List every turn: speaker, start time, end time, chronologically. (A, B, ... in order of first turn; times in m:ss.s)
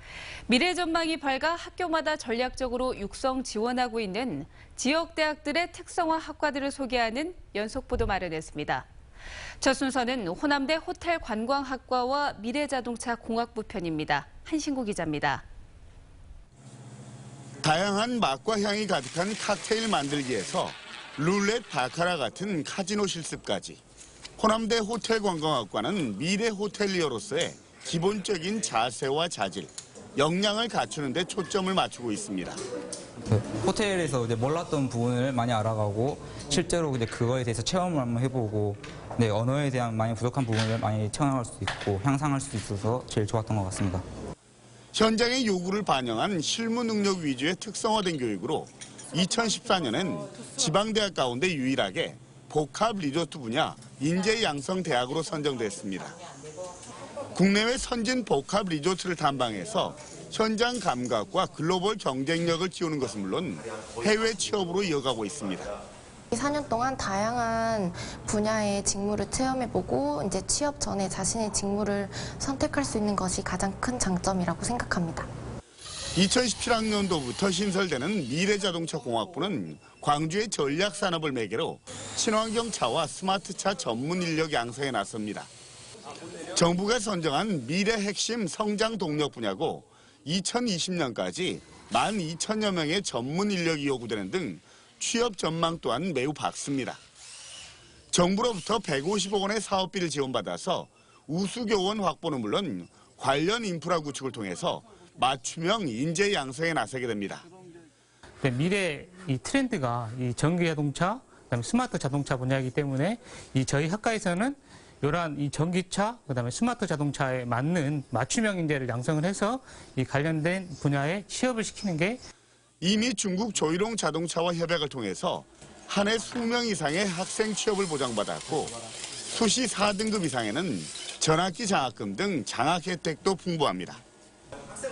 0:00.5-0:08.9 A
0:09.6-0:15.4 A
0:17.6-0:23.8 B
0:24.4-0:32.6 B
0:33.3-0:44.0 C
0:44.9-0:56.2 B
0:57.3-1:05.7 B
1:06.3-1:15.3 D
1:16.1-1:25.5 B
1:26.5-1:37.0 B
1:38.1-1:47.4 B
1:48.4-2:02.2 E
2:02.8-2:08.7 B
2:09.3-2:14.0 B